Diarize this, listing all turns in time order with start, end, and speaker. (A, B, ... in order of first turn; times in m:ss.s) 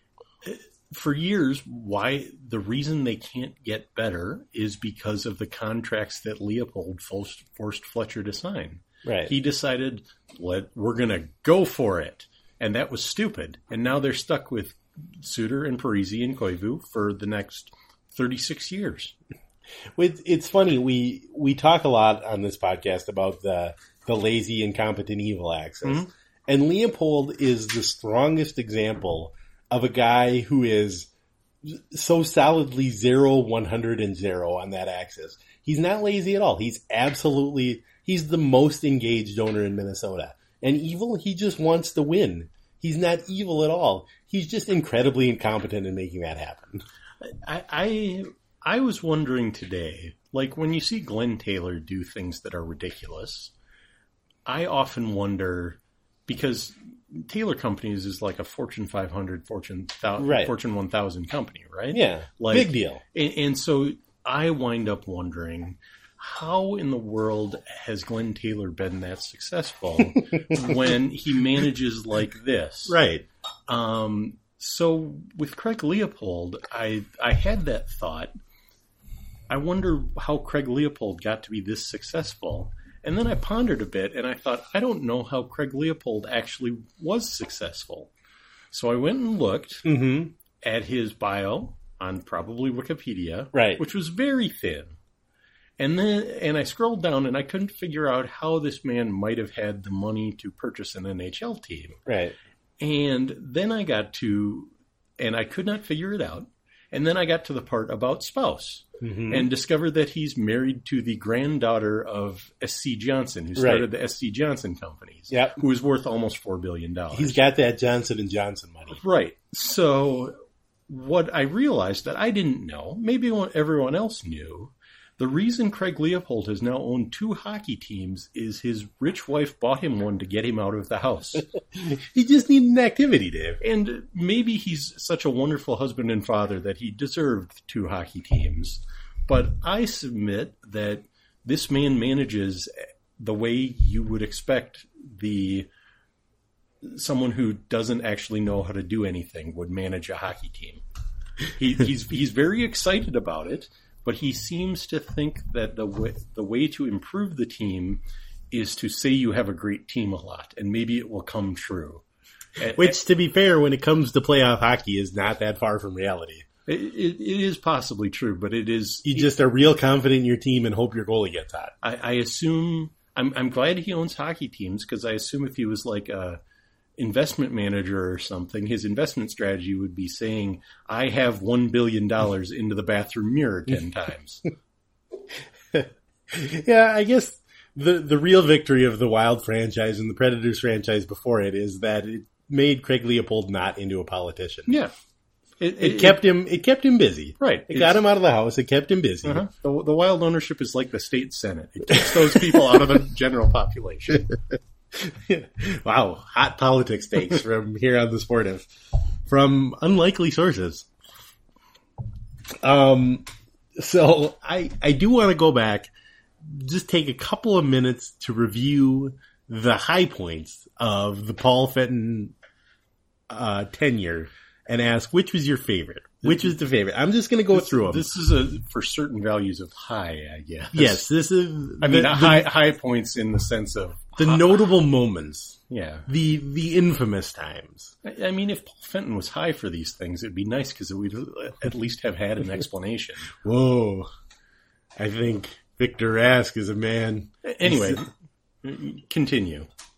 0:00.4-0:19.1 A
0:09.0-0:09.3 B
0:20.0-0:31.1 B
0:31.6-0:46.8 B
0:47.2-0:53.5 A
0:54.4-1:13.0 A
1:00.2-1:00.5 B
1:01.9-1:03.0 B
1:12.9-1:13.2 B
1:13.7-1:18.3 A
1:19.5-1:28.1 A
1:28.7-1:29.9 A
1:29.8-1:30.3 B
1:30.6-1:35.0 A
1:33.5-1:33.8 B
1:35.8-1:42.0 A
1:42.0-1:42.4 B
1:42.8-1:57.4 A
1:49.0-1:49.5 B
1:53.6-1:53.9 B
1:55.3-1:55.6 B
1:57.1-1:59.0 B
1:58.9-2:00.4 A
2:00.9-2:11.4 A
2:11.8-2:13.6 B
2:13.6-2:25.7 A
2:26.8-2:30.8 A
2:31.6-2:42.0 A
2:42.6-2:43.0 A
2:42.7-2:46.4 B
2:46.7-2:49.3 A
2:49.0-2:51.7 B
2:51.8-2:56.4 A
2:57.0-3:04.5 A
3:05.7-3:14.7 B
3:14.7-3:14.9 A
3:15.6-3:16.2 A
3:15.8-3:19.4 B
3:17.4-3:18.0 A
3:19.2-3:24.3 A
3:22.0-3:22.6 B
3:24.9-3:28.7 B
3:29.3-3:30.9 B
3:32.6-3:35.9 B
3:36.4-3:42.3 B
3:43.3-3:48.1 B
3:46.2-3:46.5 A
3:47.5-3:51.1 A
3:50.7-3:52.5 B
3:51.8-3:54.6 A
3:54.2-3:57.9 B
3:55.7-3:56.1 A
3:58.0-4:03.3 A
4:03.4-4:04.1 B
4:05.0-4:08.0 B
4:07.4-4:08.1 A
4:08.6-4:09.7 A